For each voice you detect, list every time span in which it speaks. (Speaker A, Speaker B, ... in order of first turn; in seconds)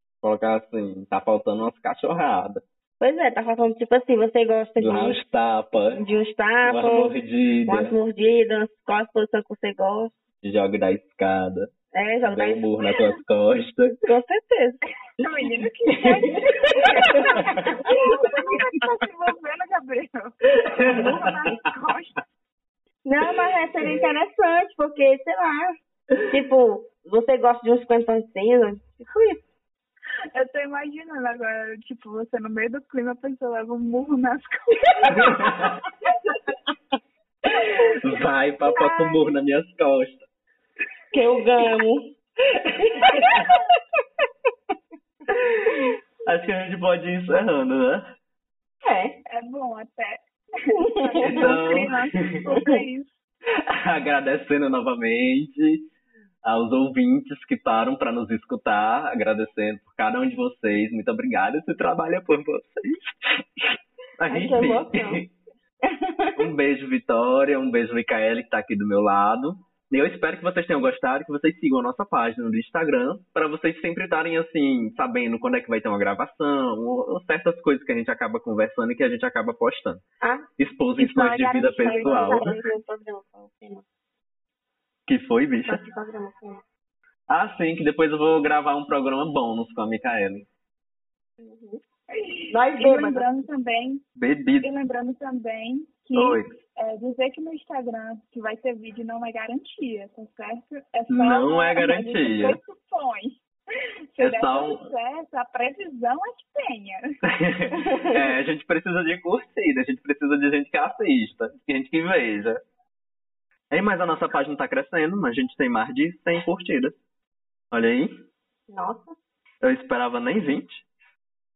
Speaker A: 0.2-2.6, 4.8-6.0, 6.6-7.9, 10.4-11.7, 12.2-14.1, 15.9-18.6, 20.6-21.1, 35.1-35.8, 37.9-40.2, 42.9-43.5, 45.3-48.0, 51.2-52.2, 53.7-55.9, 56.4-65.3, 66.4-80.0, 80.6-82.5, 85.1-85.8, 87.3-90.5, 94.2-94.7, 96.1-96.5, 101.1-102.6, 104.2-104.9, 107.2-112.6, 113.7-117.0, 117.7-118.1, 119.6-120.8
Speaker B: 3.0-5.2, 5.9-7.1, 7.7-10.2, 11.9-12.6, 14.0-14.8, 17.0-17.4, 20.9-21.4, 23.0-29.4, 41.1-42.0, 42.9-43.4, 48.8-49.2, 50.7-51.8, 64.3-65.2, 65.8-66.5, 80.2-83.8, 85.6-86.6, 91.4-91.8, 92.5-93.3, 118.7-119.2
Speaker C: 15.2-22.2, 30.3-36.1, 38.7-39.2, 49.3-53.1, 81.8-82.6, 92.1-94.0, 94.6-103.4, 104.1-107.1